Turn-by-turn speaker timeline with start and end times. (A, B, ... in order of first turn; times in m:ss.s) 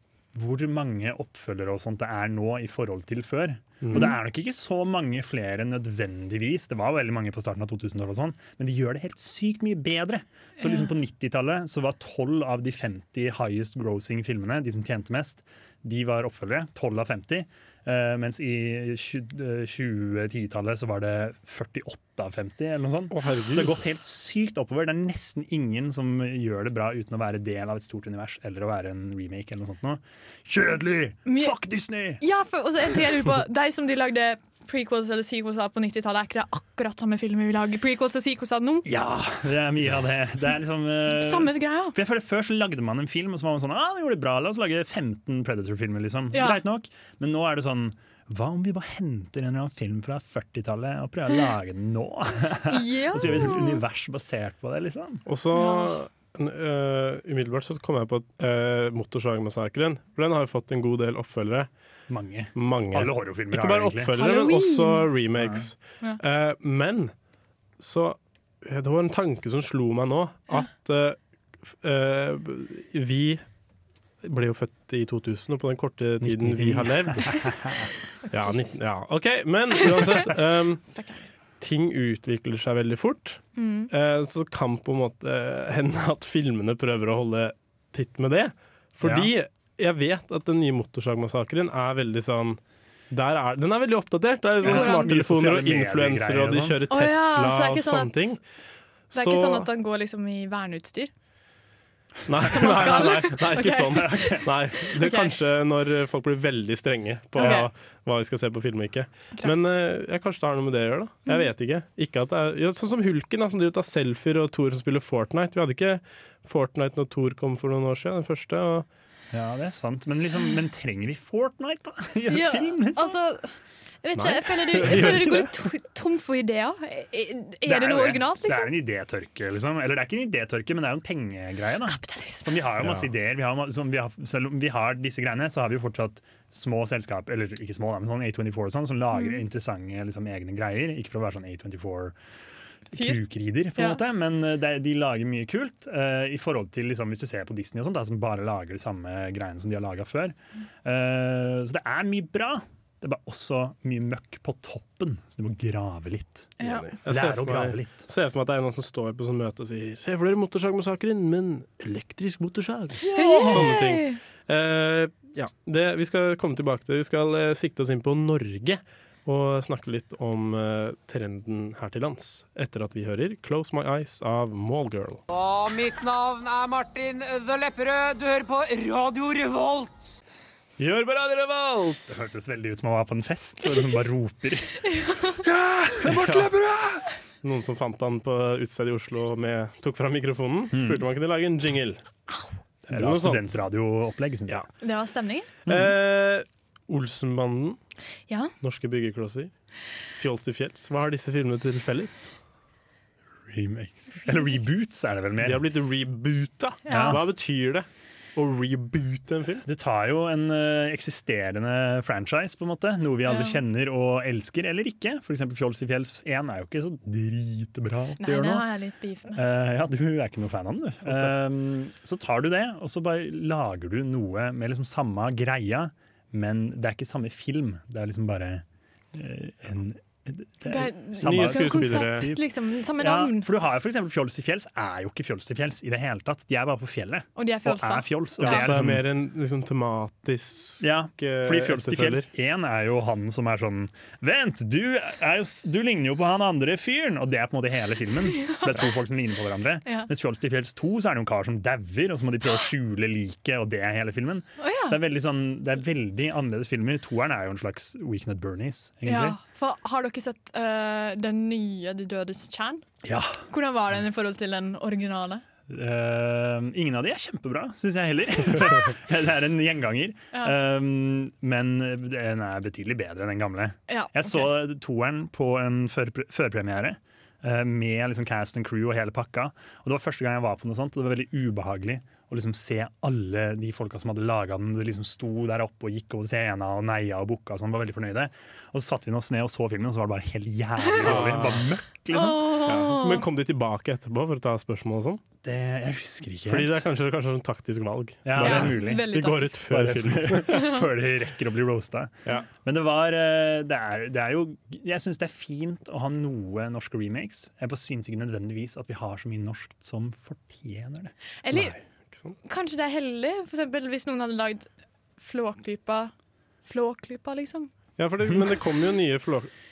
0:00.3-0:32.2 A
0:03.8-0:04.1 B
0:10.6-0:10.9 C
0:23.1-0:23.8 B
0:31.3-0:31.5 C
0:32.2-0:38.9 C
0:38.8-0:55.2 A
0:41.1-0:42.0 C
0:46.3-0:46.6 C
0:52.7-0:53.8 C
0:55.3-1:01.7 B
0:55.5-0:56.0 C
1:02.1-1:04.1 A
1:02.6-1:07.1 B
1:04.1-1:05.1 C
1:05.4-1:05.6 A
1:07.8-1:13.4 B
1:14.2-1:17.5 B
1:16.2-1:17.8 A
1:18.3-1:20.8 B
1:18.3-1:18.8 C
1:21.6-1:32.6 B
1:23.6-1:23.9 C
1:29.0-1:29.3 A
1:33.1-1:38.4 B
1:34.6-1:35.1 C
1:34.6-1:36.8 A
1:36.9-1:38.4 C
1:39.1-1:39.7 B
1:39.1-1:41.1 C
1:42.3-1:58.9 B
1:42.4-1:44.3 C
1:43.9-1:44.5 A
1:45.0-1:45.3 C
1:47.4-1:47.7 C
1:49.4-1:49.8 C
1:59.3-2:03.2 A
2:02.3-2:03.5 C
2:04.0-2:08.7 C
2:04.2-2:05.5 B
2:07.6-2:22.2 A
2:11.9-2:12.5 C
2:12.8-2:13.1 B
2:19.1-2:19.4 C
2:22.9-2:38.0 A
2:22.9-2:23.2 C
2:36.6-2:36.9 C
2:36.6-2:55.2 B
2:43.0-2:43.7 A
2:43.1-2:44.2 C
2:55.3-3:00.1 D
3:00.8-3:02.2 B
3:02.1-3:04.8 A
3:04.9-3:05.4 C
3:05.4-3:07.0 A
3:06.0-3:06.6 B
3:07.4-3:12.0 B
3:10.7-3:11.0 A
3:12.8-3:14.6 A
3:12.9-3:13.4 B
3:14.8-3:15.5 C
3:15.7-3:15.9 A
3:15.7-3:17.8 B
3:18.6-3:19.5 B
3:20.1-3:22.3 B
3:23.5-3:25.6 A
3:25.4-3:29.6 B
3:26.9-3:27.2 C
3:26.9-3:27.2 A
3:29.6-3:38.7 A
3:33.3-3:33.6 C
3:38.2-3:39.4 C
3:39.3-3:59.0 A
3:50.6-3:53.5 C
3:51.2-3:52.3 B
3:57.4-3:58.7 C
3:58.4-4:02.3 B
4:00.8-4:19.4 A
4:08.4-4:08.9 C
4:14.6-4:15.0 C
4:19.0-4:22.8 C
4:23.0-4:23.4 A
4:23.5-4:25.4 C
4:25.7-4:52.8 A
4:33.9-4:34.5 C
4:51.0-4:51.7 B
4:52.1-4:53.2 C
4:52.7-4:55.2 B
4:55.4-4:56.8 A
4:56.5-5:00.6 B
4:58.3-4:59.1 A
4:58.4-4:59.6 C
4:59.6-5:11.1 A
5:00.5-5:00.8 C
5:11.4-5:11.8 C
5:11.5-5:12.4 B
5:12.4-5:16.1 C
5:16.6-5:17.7 C
5:18.0-5:19.5 B